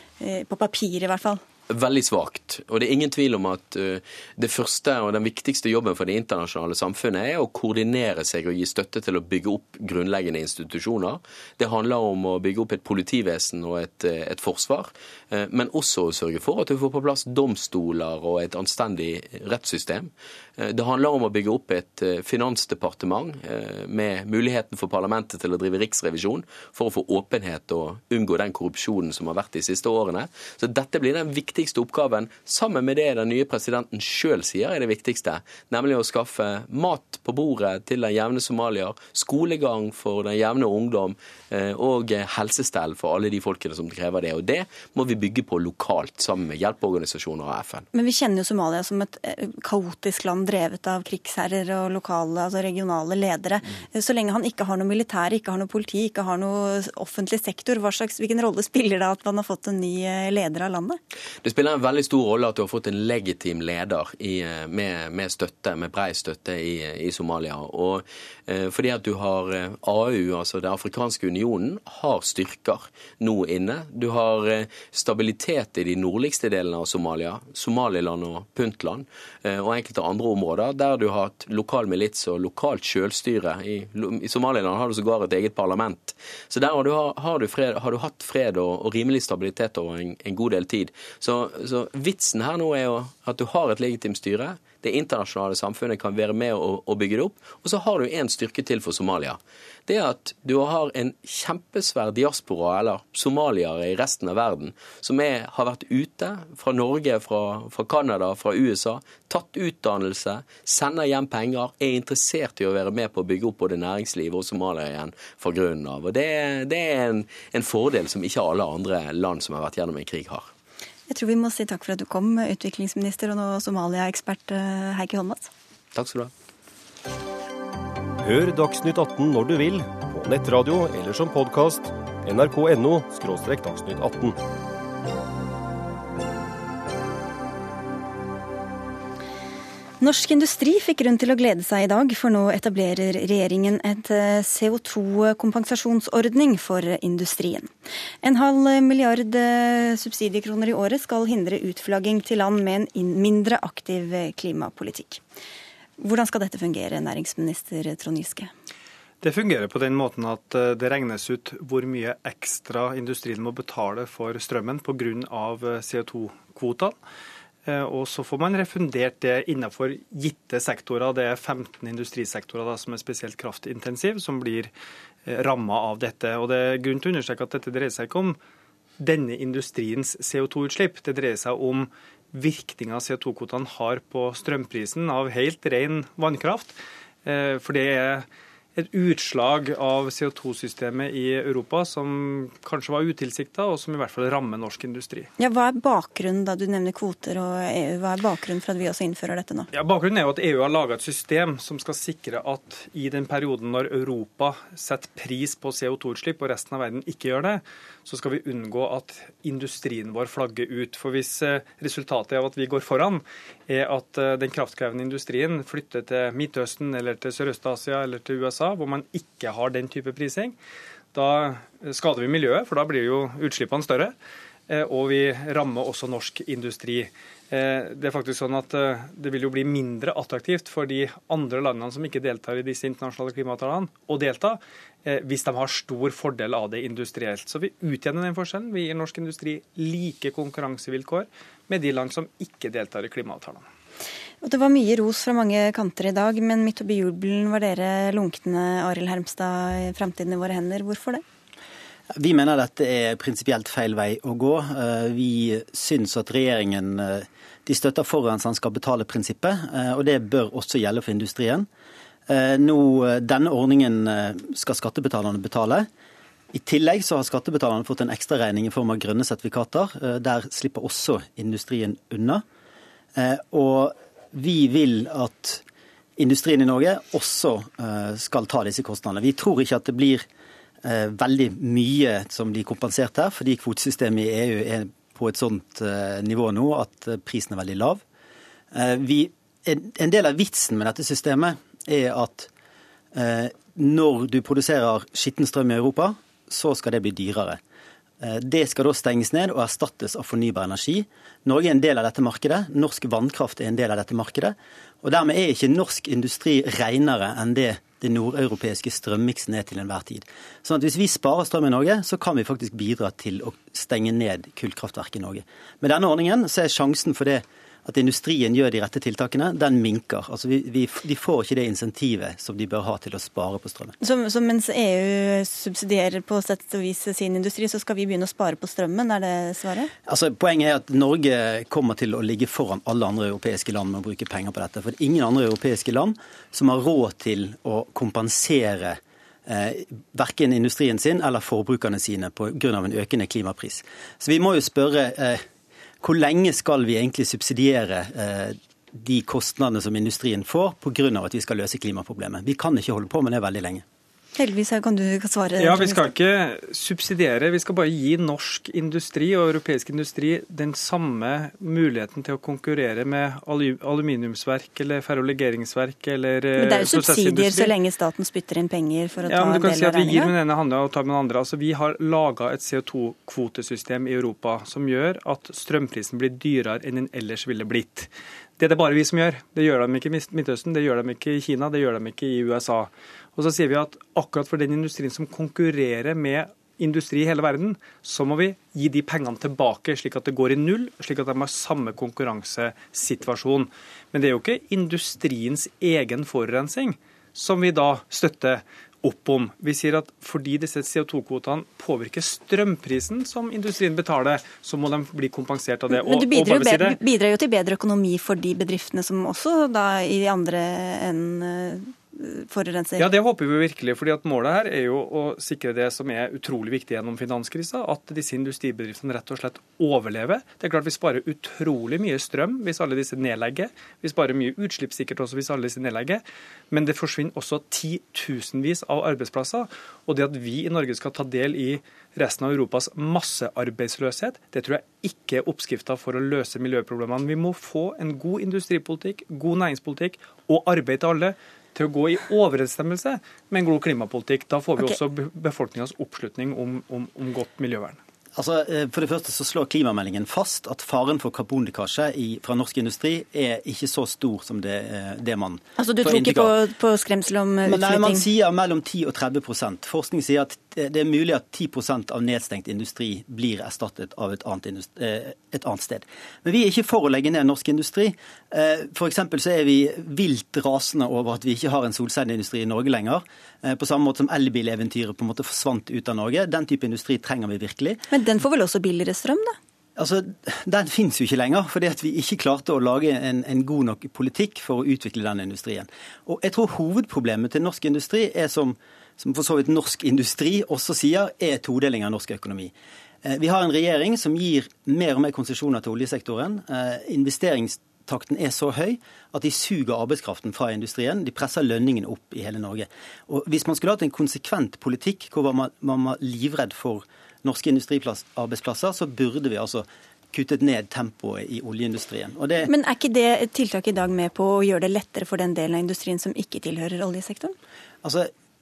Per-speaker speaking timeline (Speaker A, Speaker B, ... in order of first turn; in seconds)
Speaker A: 0.2-1.4, 47.9-61.0, 121.1-125.5, 140.0-147.7, 148.2-155.2, 156.0-158.5, 195.4-199.7, 244.4-251.2, 324.0-329.9, 354.4-356.1, 366.6-370.3, 405.9-413.1, 455.8-458.3, 478.1-479.6, 512.7-517.5
Speaker B: 1.7-47.9, 61.4-120.5, 125.9-126.3
Speaker C: 128.2-134.4
Speaker D: 159.2-167.0, 167.7-174.7, 175.3-178.4, 179.0-195.3, 199.7-220.6, 221.1-224.2, 224.7-243.6, 355.6-367.7, 369.3-407.0, 413.0-448.0
Speaker E: 252.2-261.7, 262.3-265.9, 266.5-272.4, 273.1-275.6, 276.2-280.3, 280.8-288.0, 288.7-292.5, 293.1-297.6, 298.2-324.0, 330.1-345.4, 346.0-353.9, 448.4-456.6, 457.6-478.1, 480.0-512.7, 518.0-518.3